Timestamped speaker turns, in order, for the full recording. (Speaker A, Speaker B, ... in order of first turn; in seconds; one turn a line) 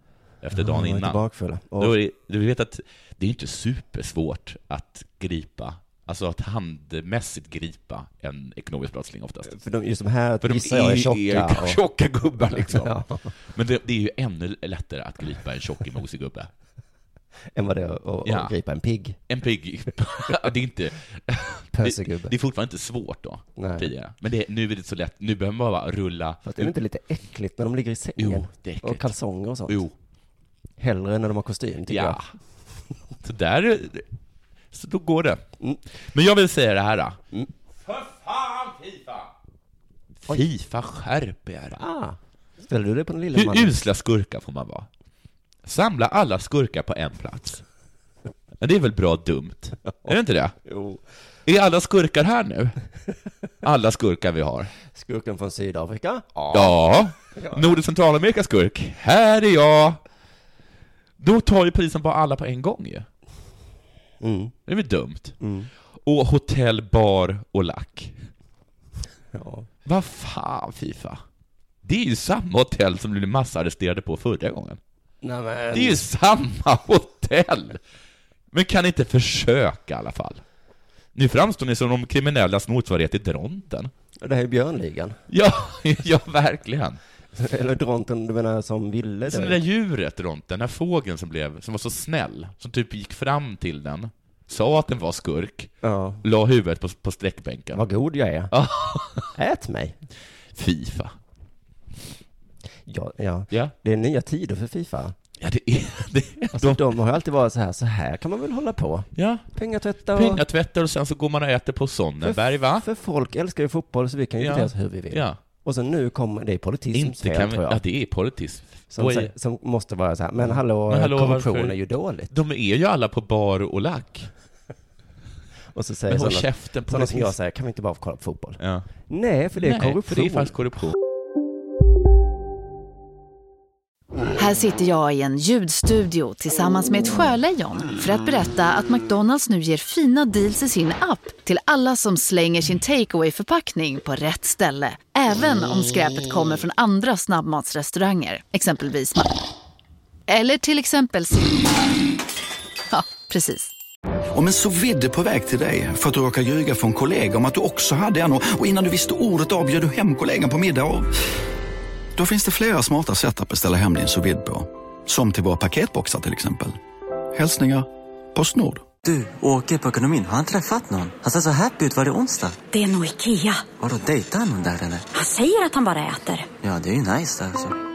Speaker A: 0.4-1.2
Speaker B: 0.5-2.0
Speaker A: 1.8-9.5
Speaker B: 9.5-11.8
Speaker A: 10.4-12.9
Speaker B: 12.6-13.3
Speaker A: 13.5-16.5
Speaker B: 17.5-19.2
Speaker A: 18.2-18.5
Speaker A: 19.3-26.7
Speaker B: 21.7-22.3
Speaker B: 23.6-23.9
Speaker B: 26.4-29.8
Speaker A: 28.2-29.1
Speaker A: 29.7-29.9
Speaker B: 30.8-32.2
Speaker A: 31.9-32.3
Speaker A: 33.2-34.0
Speaker A: 34.7-35.4
Speaker A: 36.1-37.2
Speaker A: 37.8-39.3
Speaker A: 40.2-41.8
Speaker B: 41.8-43.8
Speaker A: 43.3-44.9
Speaker A: 45.6-47.6
Speaker A: 48.6-50.5
Speaker B: 50.6-51.0
Speaker A: 51.5-52.8
Speaker A: 53.6-54.7
Speaker B: 54.9-57.7
Speaker A: 56.5-60.0
Speaker A: 61.2-63.1
Speaker B: 64.2-64.5
Speaker A: 64.7-65.4
Speaker B: 65.4-65.7
Speaker A: 66.0-68.2
Speaker B: 69.3-69.7
Speaker A: 69.8-71.2
Speaker A: 71.8-74.8
Speaker B: 75.2-76.1
Speaker A: 75.7-77.8
Speaker A: 78.5-80.4
Speaker A: 81.1-83.9
Speaker B: 84.2-85.2
Speaker A: 85.3-87.0
Speaker B: 87.3-89.6
Speaker A: 89.3-97.8
Speaker B: 95.8-96.2
Speaker B: 97.7-98.5
Speaker A: 98.5-99.3
Speaker B: 99.3-100.0
Speaker A: 100.5-101.2
Speaker B: 102.8-105.1
Speaker A: 105.4-106.9
Speaker B: 106.5-110.4
Speaker A: 109.1-109.5
Speaker A: 110.1-112.8
Speaker B: 112.2-117.8
Speaker A: 114.4-115.4
Speaker A: 116.9-119.3
Speaker B: 118.9-122.3
Speaker A: 120.4-121.8
Speaker A: 122.3-124.3
Speaker B: 125.7-130.5
Speaker A: 126.1-127.3
Speaker A: 128.6-128.8
Speaker A: 129.6-130.9
Speaker C: 134.3-149.3
Speaker C: 150.3-151.7
Speaker C: 152.9-153.7
Speaker D: 154.3-161.1
Speaker D: 162.2-166.8
Speaker D: 167.3-168.8
Speaker E: 169.0-172.6
Speaker F: 172.7-173.7
Speaker E: 173.7-175.1
Speaker F: 175.1-176.5
Speaker E: 176.6-177.8